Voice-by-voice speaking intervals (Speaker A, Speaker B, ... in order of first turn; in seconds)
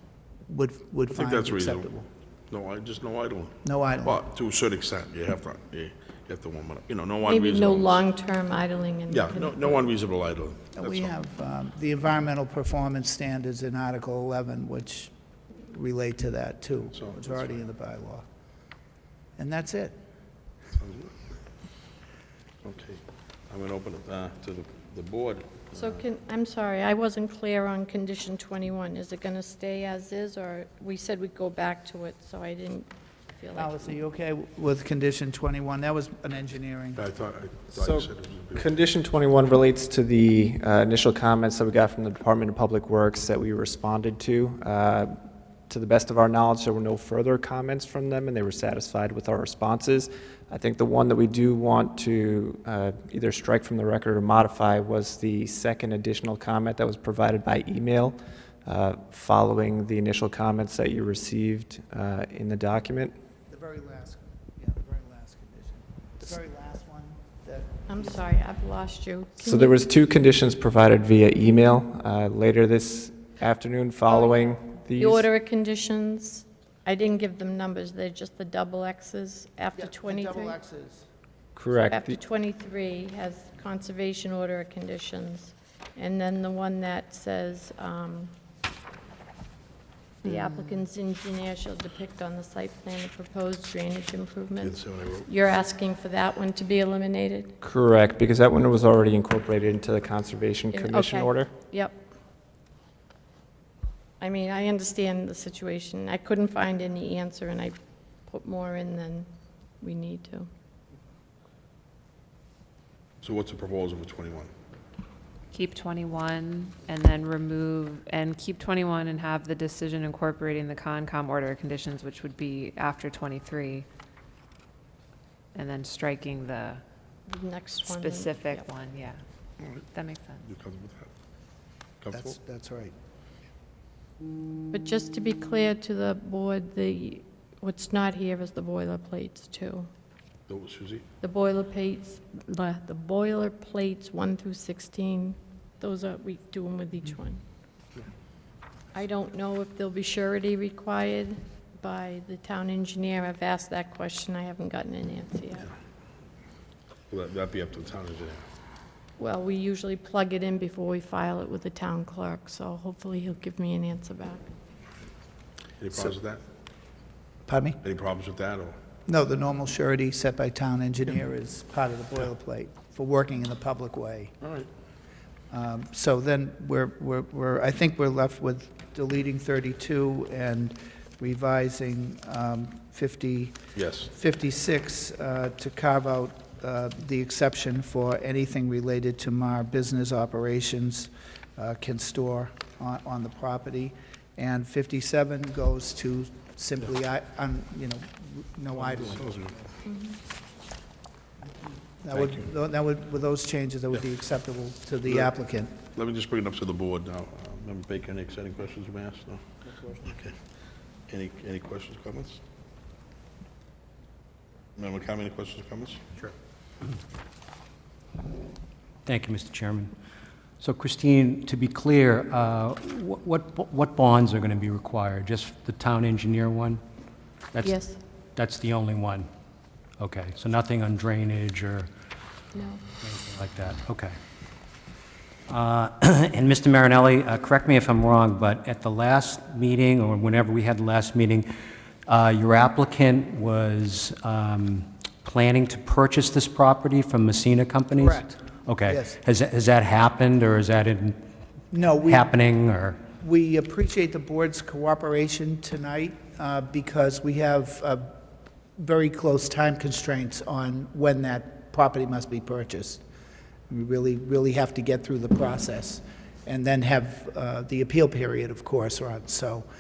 Speaker A: 0.5-2.1, 3.6-4.2, 10.7-18.2, 19.4-19.9, 33.5-37.0, 63.5-68.3, 79.8-81.1, 132.1-132.9, 167.5-167.8, 169.1-174.3, 175.5-183.6, 184.1-199.2, 202.0-205.8, 247.9-249.2, 251.7-252.3, 253.2-258.1, 258.8-263.0, 263.7-269.7
Speaker B: 1.1-1.9, 2.5-8.1, 9.1-11.1, 17.0-17.6, 20.8-21.1, 22.6-26.0, 37.0-38.8, 94.6-95.3, 113.2-114.5, 130.4-131.1, 132.0-132.3, 140.5-141.1, 157.1-158.4, 165.8-166.4, 167.8-168.8, 183.8-184.1, 199.2-199.6, 205.9-210.3, 211.1-212.4, 214.8-216.1
Speaker C: 7.2-9.8, 25.7-34.0, 67.9-69.8, 75.0-80.6, 81.9-88.3, 90.2-97.5, 100.7-102.0, 104.2-107.8, 108.3-109.3, 109.8-110.5, 127.3-128.7, 134.7-139.9, 141.2-147.4, 148.9-155.7, 159.2-164.4, 199.9-200.2, 227.6-228.0, 232.5-232.8
Speaker D: 37.7-63.2, 69.4-75.2, 81.6-82.2, 97.6-101.5
Speaker E: 90.2-90.8, 115.5-123.9, 125.5-126.8, 127.8-129.2, 129.9-130.4
Speaker F: 219.1-219.9, 220.6-226.8, 228.4-229.3, 230.0-231.9, 233.0-234.1, 235.5-241.5, 242.1-251.2, 252.0-253.0